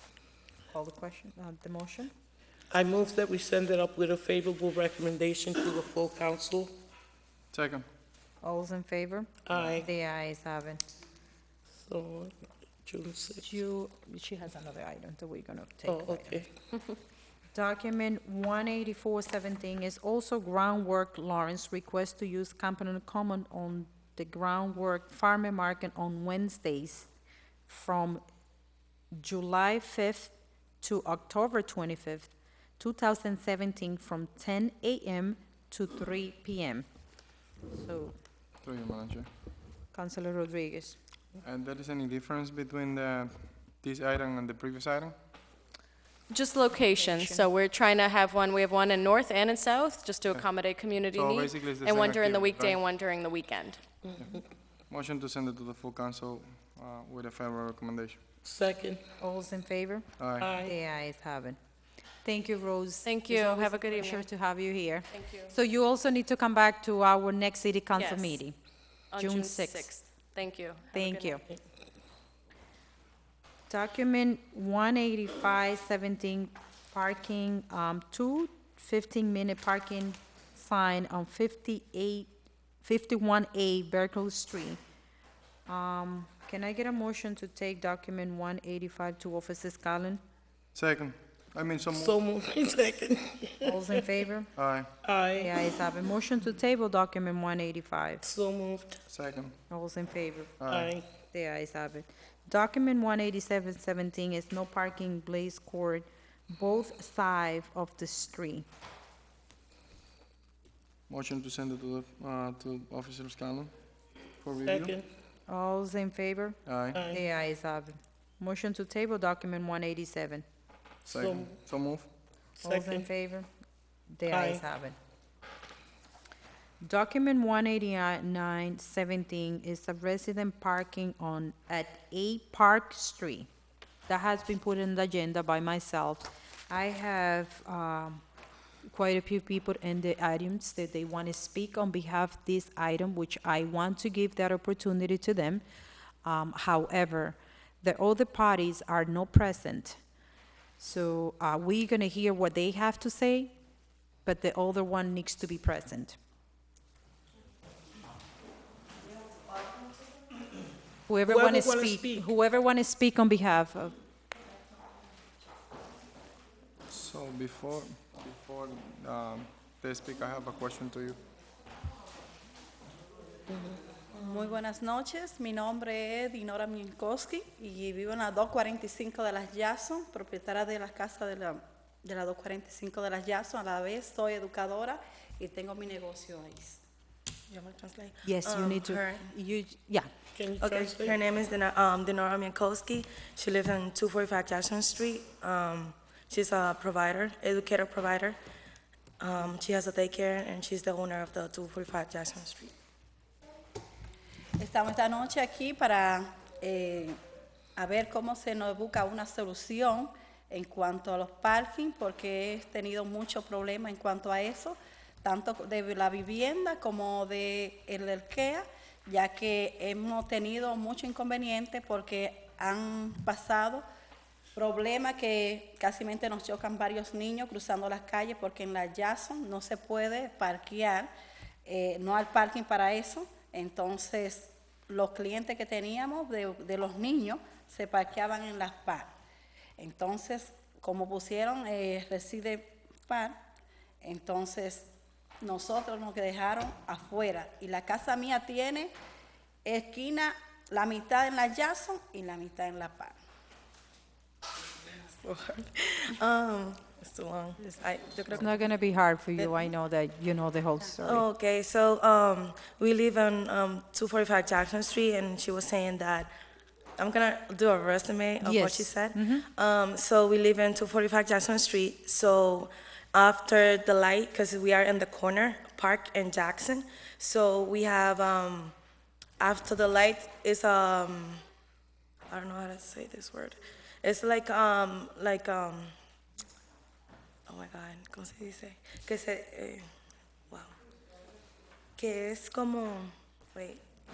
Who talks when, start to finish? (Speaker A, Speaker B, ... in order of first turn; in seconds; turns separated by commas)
Speaker A: 0.7-2.1, Speaker B: 2.7-6.7, Speaker C: 7.5-7.9, Speaker A: 8.4-10.8, Speaker B: 9.5-9.9, Speaker C: 9.5-9.8, Speaker B: 11.8-13.5, Speaker A: 13.4-16.5, Speaker B: 15.9-16.5, Speaker A: 17.5-27.1, Speaker A: 27.7-28.2, Speaker A: 29.1-36.9, Speaker A: 37.7-38.2, Speaker C: 38.6-39.3, Speaker A: 39.9-41.0, Speaker C: 41.4-45.2, Speaker D: 46.3-53.8, Speaker A: 47.0-47.4, Speaker C: 50.3-52.8, Speaker B: 54.1-54.4, Speaker C: 54.2-58.2, Speaker B: 58.4-59.0, Speaker A: 59.2-60.1, Speaker C: 60.2-60.6, Speaker B: 60.4-60.7, Speaker A: 60.6-61.6, Speaker A: 62.2-68.6, Speaker D: 63.0-64.3, Speaker D: 65.1-65.5, Speaker D: 68.0-68.4, Speaker D: 69.1-71.4, Speaker A: 69.2-69.9, Speaker A: 70.9-71.5, Speaker A: 73.7-82.3, Speaker A: 82.8-84.8, Speaker A: 85.7-90.2, Speaker C: 90.7-92.2, Speaker B: 91.9-94.0, Speaker A: 93.6-94.5, Speaker C: 94.6-94.9, Speaker B: 95.0-95.7, Speaker A: 95.3-98.2, Speaker B: 98.2-99.0, Speaker C: 99.1-99.6, Speaker A: 99.7-100.6, Speaker C: 100.6-100.9, Speaker B: 100.7-101.1, Speaker A: 101.3-108.7, Speaker C: 111.1-113.7, Speaker C: 114.4-115.0, Speaker B: 114.7-115.0, Speaker A: 115.5-120.5, Speaker C: 116.7-117.0, Speaker B: 116.9-117.2, Speaker C: 121.0-122.1, Speaker B: 121.1-121.6, Speaker A: 122.6-123.5, Speaker B: 122.6-123.1, Speaker A: 124.1-125.0, Speaker B: 124.3-124.6, Speaker A: 126.8-133.5, Speaker A: 134.1-138.2, Speaker A: 138.8-145.6, Speaker A: 146.2-150.0, Speaker A: 150.8-153.5, Speaker A: 154.2-156.2, Speaker A: 161.1-164.0, Speaker B: 161.2-162.3, Speaker C: 166.9-171.2, Speaker B: 173.5-173.8, Speaker E: 174.1-186.8, Speaker F: 187.5-189.3, Speaker A: 188.2-190.1, Speaker B: 190.3-191.2, Speaker F: 190.6-198.4, Speaker F: 199.2-202.7, Speaker E: 204.6-207.2, Speaker E: 207.8-223.8, Speaker E: 224.6-231.1, Speaker E: 231.7-239.1, Speaker E: 239.8-243.4, Speaker E: 244.0-244.9, Speaker E: 245.4-248.9, Speaker E: 249.7-253.2, Speaker F: 255.1-258.6, Speaker A: 258.3-261.2, Speaker F: 259.4-259.7, Speaker F: 261.0-266.3, Speaker F: 267.0-278.8, Speaker A: 268.4-269.5, Speaker F: 279.4-281.4, Speaker F: 282.3-285.9, Speaker F: 287.5-289.9, Speaker F: 292.0-293.8